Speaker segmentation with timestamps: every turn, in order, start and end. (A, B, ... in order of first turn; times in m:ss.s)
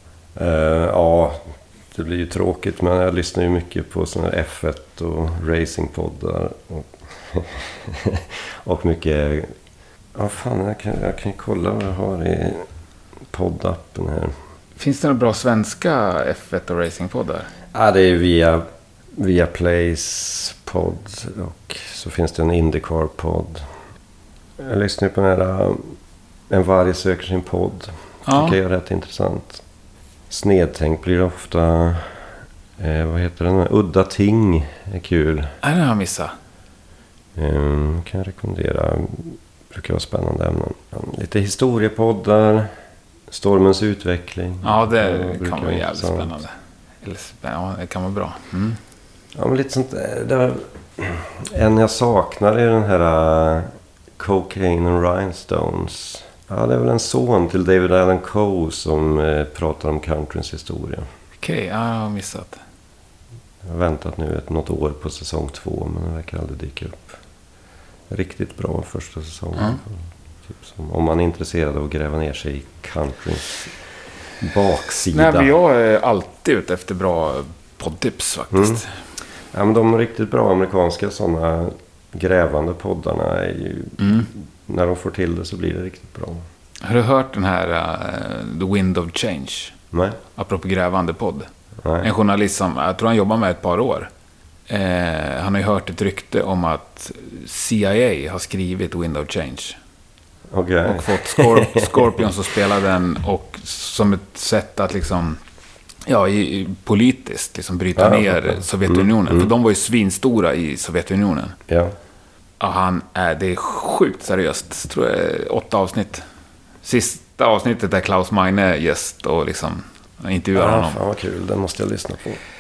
0:00.4-0:09.5 A
0:10.2-0:12.7 A
0:13.3-0:14.3 A
0:14.8-0:17.5 B
0:17.7-0:23.7 A
0:24.6-0:26.0 A
0:26.5-0:29.6 A
0:28.3-0:28.6 B
0:30.3-0:32.2 A
0:32.8-0:35.5 A
0:35.6-0:36.3 B
0:37.4-0:42.7 A
0:43.3-0:46.4 A
0:44.6-0:48.8 B
0:49.4-1:01.1 A
1:01.4-1:02.6 B
1:03.6-1:07.2 A
1:08.1-1:13.7 A
1:14.4-1:15.5 A
1:15.1-1:18.9 B
1:18.5-1:18.8 A
1:19.5-1:26.4 A
1:24.0-1:24.3 B
1:26.8-1:29.8 B
1:29.9-1:30.2 A
1:30.4-1:31.5 B
1:31.8-1:32.1 A
1:32.0-1:34.1 B
1:34.7-1:39.8 B
1:40.5-1:42.3 A
1:40.9-1:45.4 B
1:46.1-1:51.6 B
1:48.0-1:49.5 A
1:51.7-1:51.9 A
1:52.6-1:56.2 B
1:56.8-2:01.0 B
2:00.6-2:02.4 A